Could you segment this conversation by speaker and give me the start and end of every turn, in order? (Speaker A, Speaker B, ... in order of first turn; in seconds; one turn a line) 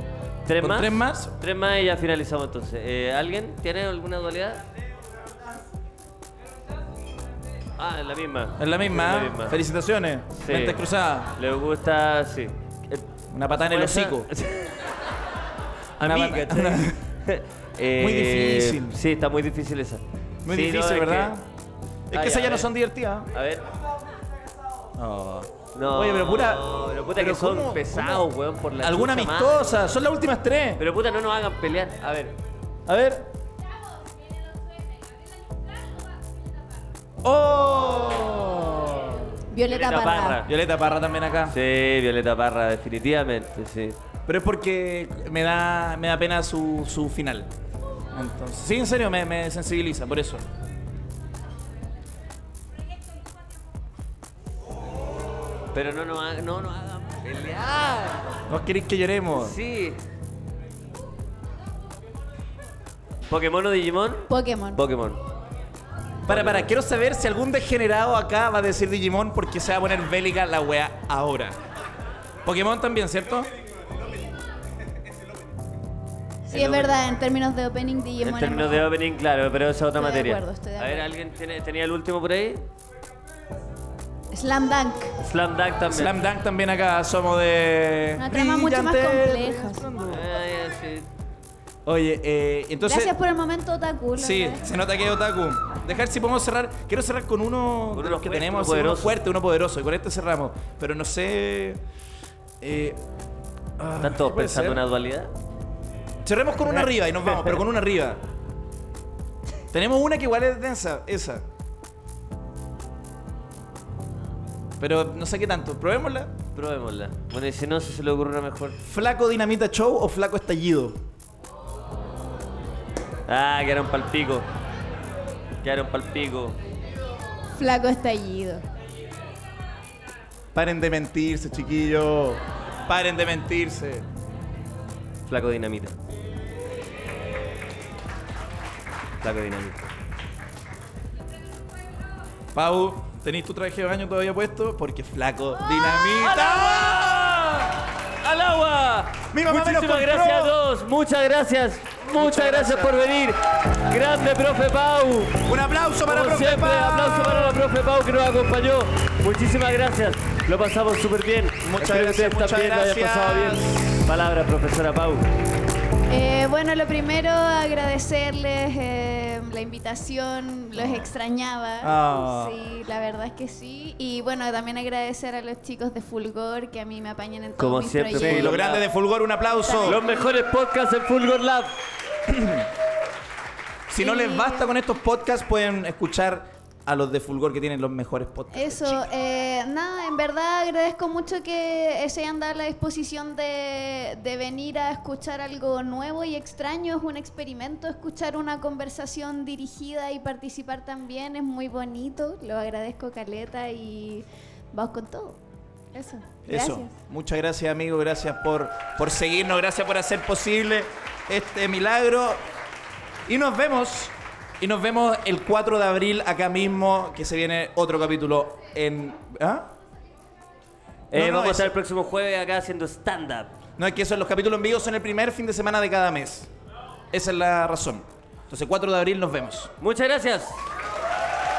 Speaker A: 0.5-4.6
Speaker B: 0.6-1.3
Speaker A: 7.8-9.6
Speaker B: 8.6-11.3
Speaker A: 10.4-10.8
Speaker A: 11.3-14.8
Speaker B: 13.3-14.3
Speaker B: 16.0-17.0
Speaker A: 16.0-21.4
Speaker B: 18.0-19.0
Speaker B: 20.4-21.4
Speaker B: 22.1-23.3
Speaker A: 22.1-22.7
Speaker A: 23.3-23.6
Speaker B: 25.0-28.3
Speaker A: 25.7-29.9
Speaker B: 28.8-30.8
Speaker A: 30.8-32.3
Speaker B: 32.9-33.3
Speaker B: 37.2-39.3
Speaker C: 39.5-40.4
Speaker A: 39.7-40.5
Speaker B: 40.4-41.5
Speaker A: 41.5-44.0
Speaker B: 44.3-47.5
Speaker B: 48.1-50.4
Speaker A: 55.7-58.3
Speaker B: 58.5-59.6
Speaker A: 59.3-60.0
Speaker A: 63.2-65.2
Speaker C: 64.3-64.8
Speaker A: 66.3-66.7
Speaker B: 66.3-71.6
Speaker B: 72.5-73.5
Speaker C: 76.5-78.9
Speaker A: 76.5-77.0
Speaker A: 78.2-82.7
Speaker C: 79.9-81.1
Speaker C: 84.3-85.1
Speaker A: 85.2-86.3
Speaker B: 85.9-90.2
Speaker C: 88.2-89.9
Speaker A: 90.1-91.1
Speaker B: 91.8-93.1
Speaker C: 92.8-94.6
Speaker B: 94.2-101.8
Speaker A: 97.9-99.2
Speaker B: 102.6-103.0
Speaker B: 103.8-104.8
Speaker A: 104.0-105.3
Speaker B: 106.2-108.2
Speaker A: 106.7-107.6
Speaker B: 109.7-111.4
Speaker B: 114.8-116.3
Speaker A: 116.5-118.8
Speaker B: 118.8-121.0
Speaker A: 123.3-124.5
Speaker A: 125.6-126.6
Speaker C: 127.6-128.6
Speaker B: 130.5-134.1
Speaker A: 135.3-135.9
Speaker A: 139.2-139.9
Speaker B: 142.5-147.3
Speaker A: 145.8-155.5
Speaker B: 149.3-150.5
Speaker B: 152.1-153.0
Speaker B: 155.4-157.6
Speaker A: 156.1-165.2
Speaker B: 161.6-164.2
Speaker C: 166.1-178.6
Speaker B: 171.8-172.6
Speaker A: 177.6-178.9
Speaker B: 178.2-180.0
Speaker C: 179.6-180.3
Speaker A: 179.8-181.8
Speaker B: 182.3-182.7
Speaker B: 183.9-189.0
Speaker C: 184.0-184.7
Speaker C: 188.5-205.4
Speaker C: 205.9-206.9
Speaker B: 206.5-212.4
Speaker B: 213.3-219.7
Speaker A: 221.1-223.5
Speaker B: 221.1-221.7
Speaker B: 223.8-226.5
Speaker B: 227.1-229.7
Speaker A: 229.8-230.7